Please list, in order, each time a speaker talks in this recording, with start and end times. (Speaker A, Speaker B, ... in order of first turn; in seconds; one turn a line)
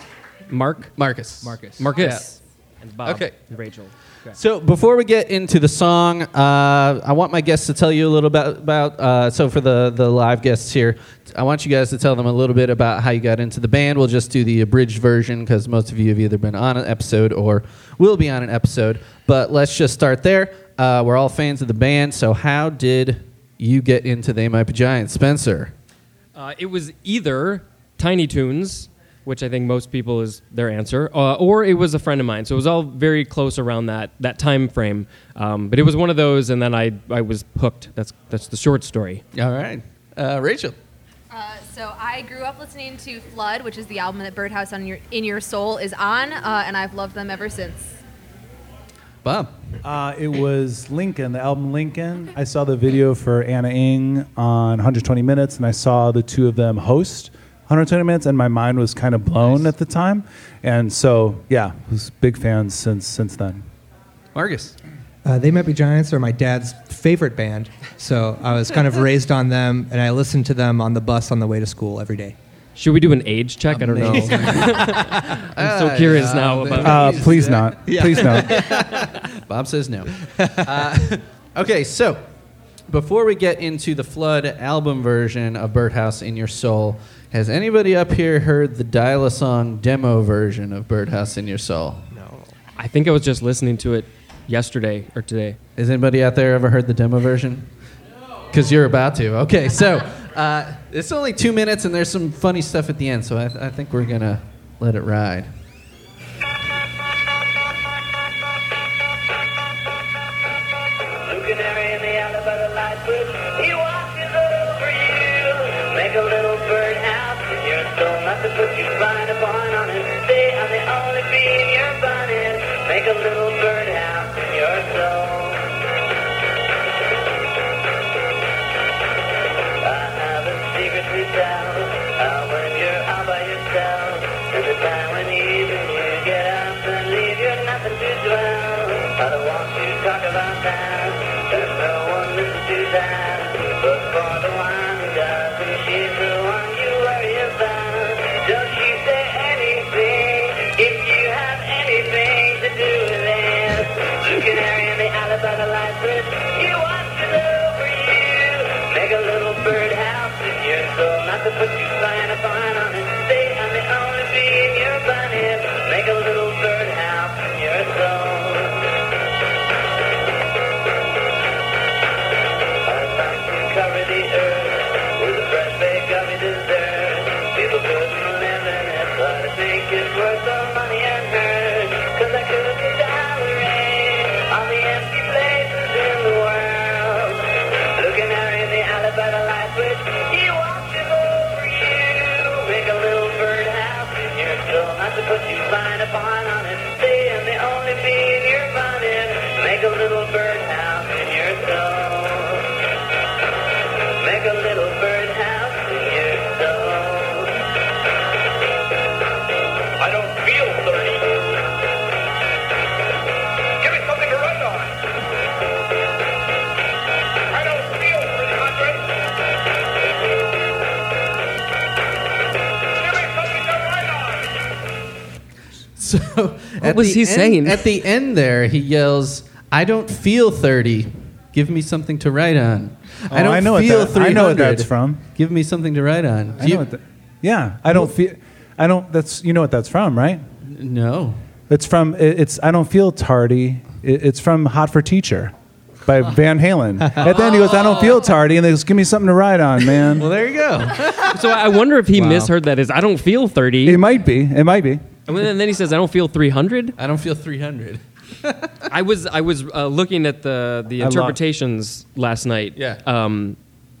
Speaker A: 0.5-0.9
Speaker B: 0.9-2.3
Speaker C: 1.4-1.9
Speaker A: 1.8-4.3
Speaker B: 3.0-3.3
Speaker B: 4.3-25.7
Speaker A: 26.3-39.2
Speaker B: 39.3-40.8
Speaker D: 41.3-47.9
Speaker B: 49.2-49.5
Speaker E: 49.8-63.6
Speaker B: 64.3-64.7
Speaker C: 65.2-72.3
Speaker A: 72.8-77.4
Speaker B: 73.7-82.2
Speaker C: 74.0-75.0
Speaker E: 76.8-78.8
Speaker C: 77.8-79.1
Speaker C: 80.5-80.9
Speaker B: 82.9-92.0
Speaker C: 92.1-92.5
Speaker A: 92.8-95.6
Speaker B: 95.8-97.7
Speaker B: 98.5-105.5
Speaker F: 111.2-125.7
Speaker F: 129.8-168.9
Speaker F: 172.8-202.7
Speaker F: 204.2-207.6
Speaker F: 210.0-211.2
Speaker B: 226.0-236.8
Speaker A: 226.8-227.9
Speaker E: 233.3-235.2
Speaker E: 236.6-240.4
Speaker B: 240.6-241.4
Speaker E: 241.7-245.5
Speaker E: 246.0-250.3
Speaker B: 247.2-248.2
Speaker B: 250.0-251.6
Speaker A: 251.2-254.0
Speaker E: 253.8-255.1
Speaker A: 255.2-257.0
Speaker B: 257.0-258.9
Speaker A: 258.9-263.6
Speaker E: 261.0-261.4
Speaker B: 262.8-263.0